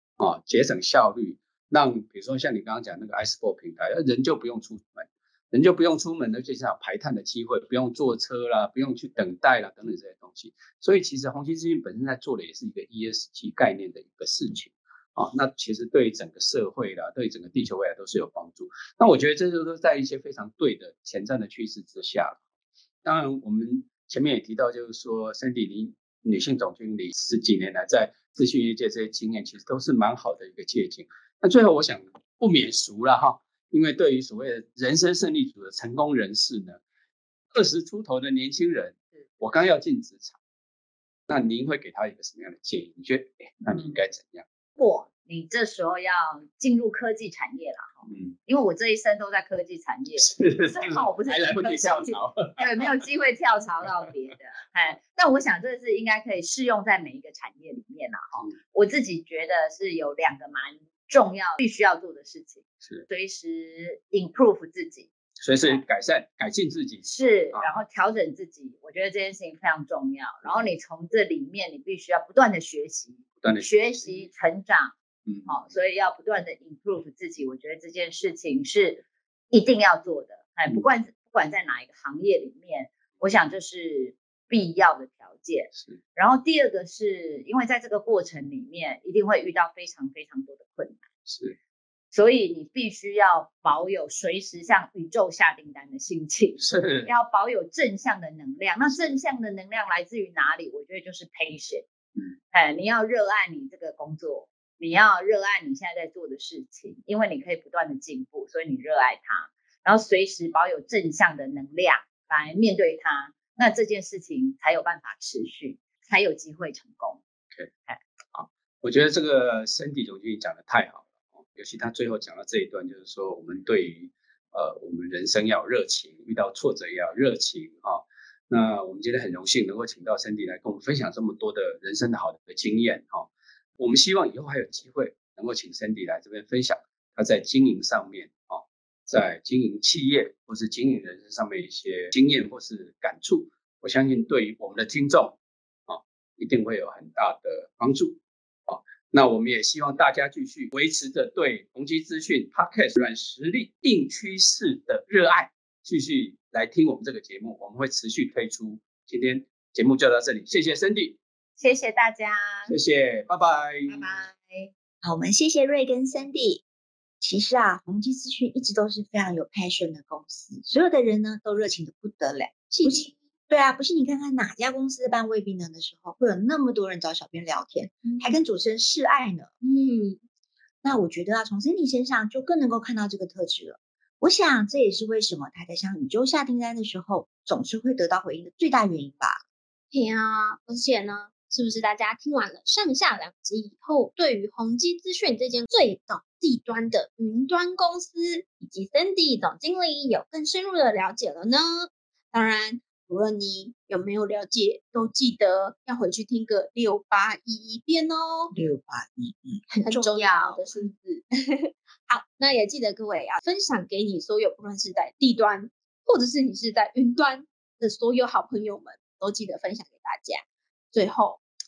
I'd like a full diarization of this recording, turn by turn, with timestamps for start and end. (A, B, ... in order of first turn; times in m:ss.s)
0:00.2-0:22.4 A
0:23.0-0:36.8 A
0:37.5-0:40.4 A
0:41.3-0:44.4 A
0:44.8-1:05.1 B
0:48.1-0:48.3 A
0:50.2-0:52.9 A
1:05.4-1:07.7 A
1:07.0-1:31.0 B
1:13.4-1:14.2 A
1:31.3-1:31.6 A
1:32.1-1:41.9 B
1:36.6-1:37.1 A
1:42.5-1:57.2 B
1:58.3-2:41.2 A
2:41.6-2:42.7 B
2:42.6-2:44.1 A
2:43.9-2:44.7 B
2:45.0-2:46.6 C
2:47.2-2:59.5 C
2:52.7-2:53.1 D
2:58.0-2:58.4 D
2:59.6-3:00.2 D
3:00.8-3:09.4 C
3:09.9-3:28.5 D
3:28.5-3:30.6 C
3:29.7-3:41.4 D